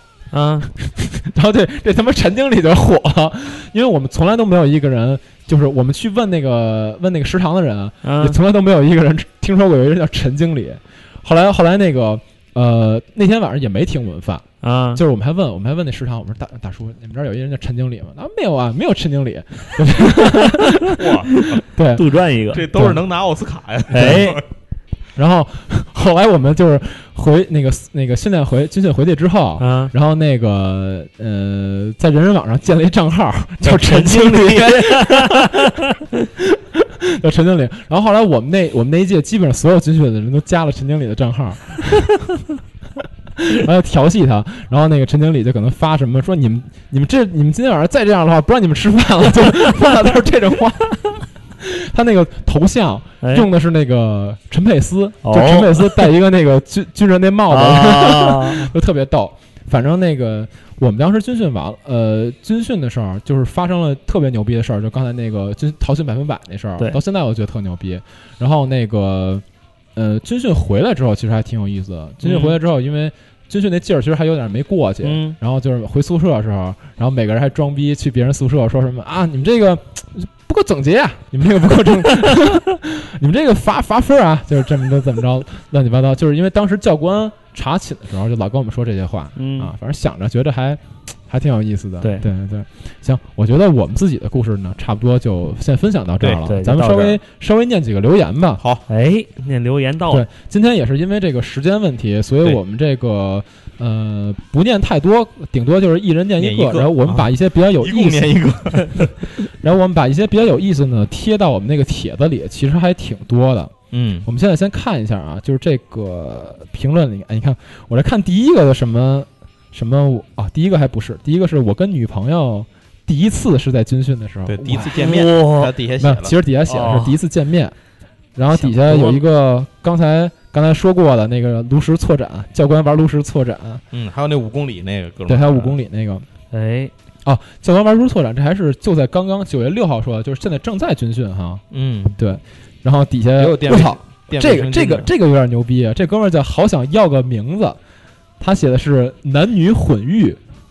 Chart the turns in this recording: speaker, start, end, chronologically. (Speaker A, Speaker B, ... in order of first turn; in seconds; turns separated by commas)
Speaker A: 0.3-0.7, Speaker B: 0.8-21.0, Speaker A: 8.0-8.4, Speaker A: 14.6-15.0, Speaker A: 20.1-20.6, Speaker C: 21.0-21.6, Speaker A: 21.4-22.7, Speaker B: 21.6-22.1, Speaker C: 22.5-24.4, Speaker B: 22.7-23.0, Speaker A: 23.9-24.4, Speaker B: 23.9-24.3, Speaker B: 25.1-35.8, Speaker A: 29.6-29.9, Speaker A: 33.6-35.9, Speaker B: 36.4-42.2, Speaker B: 43.4-69.4, Speaker A: 53.2-53.5, Speaker A: 55.2-56.1, Speaker A: 57.5-58.7, Speaker B: 69.9-98.6, Speaker A: 72.2-72.6, Speaker A: 75.0-75.4, Speaker A: 89.4-89.7, Speaker A: 92.0-92.3, Speaker A: 96.5-97.2, Speaker C: 98.6-98.8, Speaker A: 98.9-100.3, Speaker B: 100.1-108.4, Speaker C: 106.4-109.1, Speaker B: 109.6-113.7, Speaker C: 113.9-114.3, Speaker B: 114.2-125.0, Speaker C: 124.5-126.3, Speaker A: 124.9-125.8, Speaker B: 126.0-127.7, Speaker A: 126.7-127.2, Speaker B: 128.3-133.8, Speaker A: 128.5-129.2, Speaker C: 133.9-135.8, Speaker B: 135.3-136.2, Speaker A: 136.5-136.9, Speaker B: 137.2-141.6, Speaker C: 141.7-142.2, Speaker B: 142.2-147.8, Speaker C: 143.4-145.1, Speaker B: 148.4-150.4